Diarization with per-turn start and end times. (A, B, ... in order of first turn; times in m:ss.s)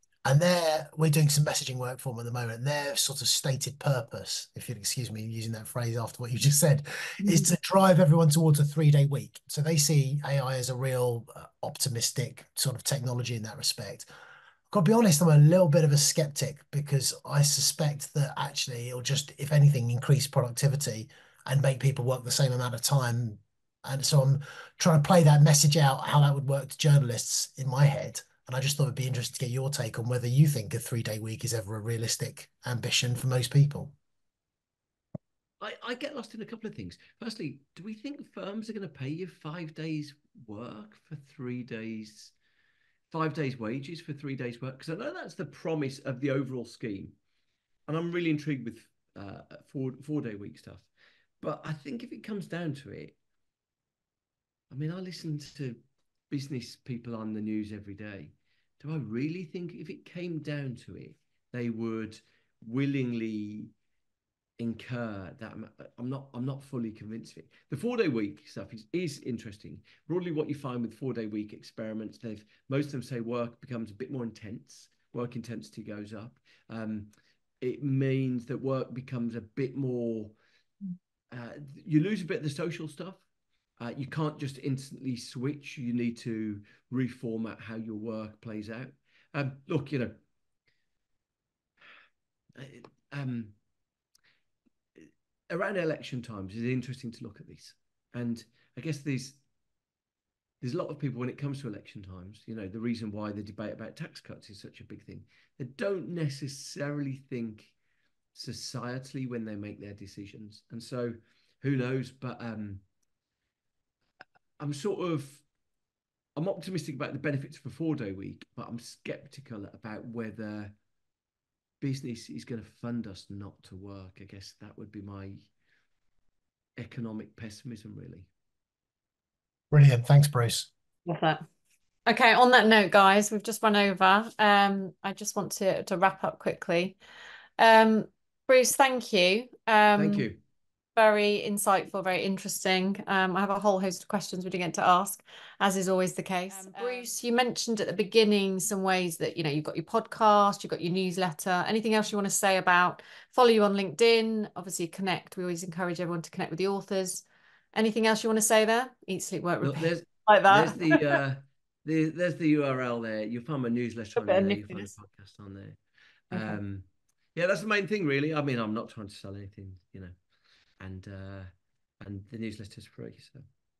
0:00.2-0:14.1 A
0:14.7-0:33.9 A
0:35.6-0:42.3 B
0:43.1-0:47.1 B
0:47.9-0:50.9 B
0:51.4-0:53.2 B
0:54.7-1:03.7 B
1:04.6-1:20.4 B
1:21.3-1:23.2 B
1:23.8-1:30.2 B
1:32.5-1:33.5 B
1:35.0-1:39.4 B
1:40.6-1:47.7 B
1:48.3-1:52.8 B
1:54.6-1:55.4 B
1:56.4-2:00.7 B
2:01.8-2:05.5 B
2:06.8-2:08.3 B
2:09.7-2:10.7 A
2:11.0-2:11.4 C
2:12.0-2:17.0 C
2:17.6-2:20.3 C
2:19.9-2:20.4 B
2:21.0-2:41.2 C
2:39.6-2:45.8 B
2:44.2-2:44.9 C
2:46.3-2:50.1 B
2:46.3-2:46.6 C
2:50.8-2:53.4 B